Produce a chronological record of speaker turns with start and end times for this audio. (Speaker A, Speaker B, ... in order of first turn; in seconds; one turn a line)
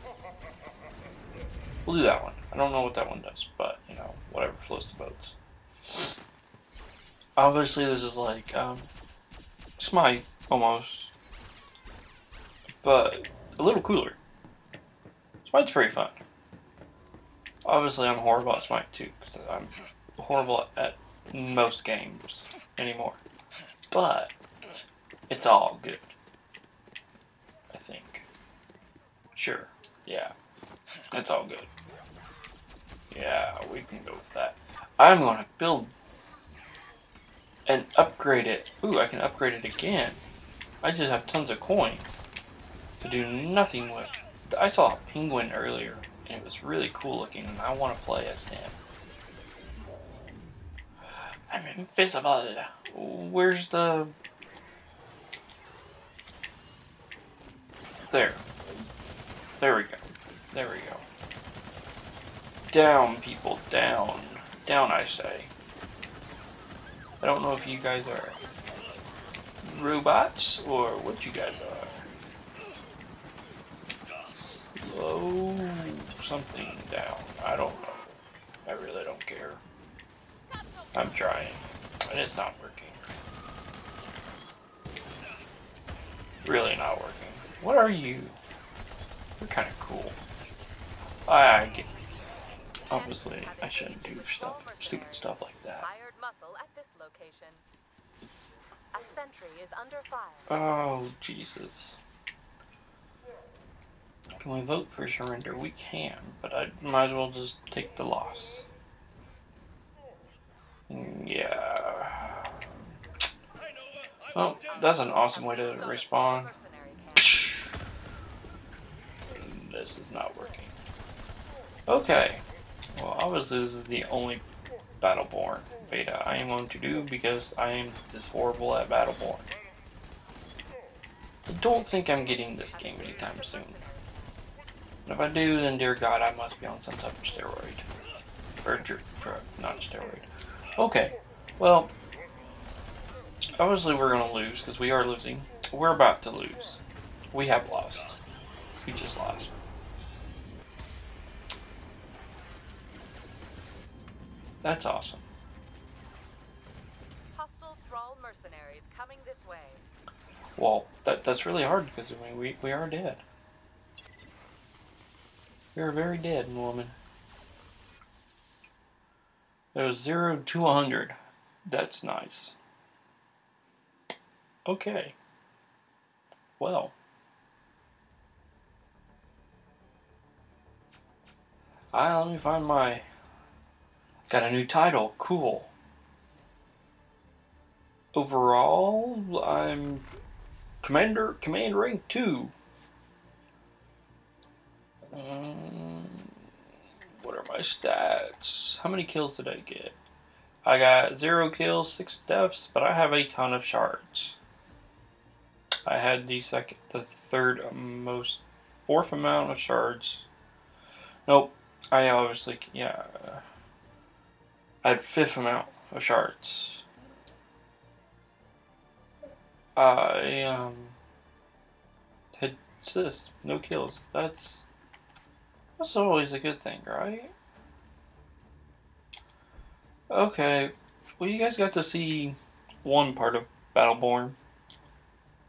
Speaker A: 1.9-6.1
Speaker A: 7.4-8.9
Speaker A: 9.8-11.1
Speaker A: 12.8-14.2
Speaker A: 15.4-16.2
Speaker A: 17.6-23.2
Speaker A: 23.9-24.3
Speaker A: 25.3-26.1
Speaker A: 27.7-28.2
Speaker A: 29.3-30.3
Speaker A: 31.1-31.7
Speaker A: 33.1-35.9
Speaker A: 37.7-40.2
Speaker A: 40.8-42.2
Speaker A: 43.0-48.8
Speaker A: 51.5-54.1
Speaker A: 58.1-58.4
Speaker A: 59.6-61.0
Speaker A: 62.7-65.5
Speaker A: 67.2-68.4
Speaker A: 69.6-72.1
Speaker A: 74.3-79.6
Speaker A: 80.9-83.0
Speaker A: 86.4-88.4
Speaker A: 89.4-90.2
Speaker A: 91.2-91.9
Speaker A: 92.9-95.8
Speaker B: 92.9-97.6
Speaker B: 98.9-100.5
Speaker A: 100.5-102.0
Speaker A: 104.4-108.7
Speaker A: 110.9-112.6
Speaker A: 114.3-116.5
Speaker B: 114.7-117.4
Speaker A: 117.2-117.8
Speaker A: 119.3-120.8
Speaker A: 121.9-124.4
Speaker A: 125.0-129.5
Speaker A: 131.5-133.8
Speaker B: 132.4-134.4
Speaker A: 135.1-137.8
Speaker A: 138.6-141.9
Speaker A: 143.6-148.2
Speaker A: 148.8-149.6
Speaker A: 154.6-155.2
Speaker B: 157.3-159.8
Speaker A: 160.6-163.2
Speaker A: 165.7-166.9
Speaker A: 169.7-171.1
Speaker A: 171.7-172.6
Speaker A: 174.7-175.2
Speaker A: 176.6-176.9
Speaker A: 181.9-183.0
Speaker A: 184.3-185.7
Speaker A: 188.1-190.1
Speaker A: 190.8-192.5
Speaker A: 195.1-196.5
Speaker A: 197.2-200.0
Speaker A: 200.6-204.4
Speaker A: 205.8-210.3
Speaker A: 211.2-213.4
Speaker A: 214.8-216.8
Speaker A: 219.8-221.0
Speaker A: 222.3-224.7
Speaker A: 225.8-227.3
Speaker A: 230.1-234.4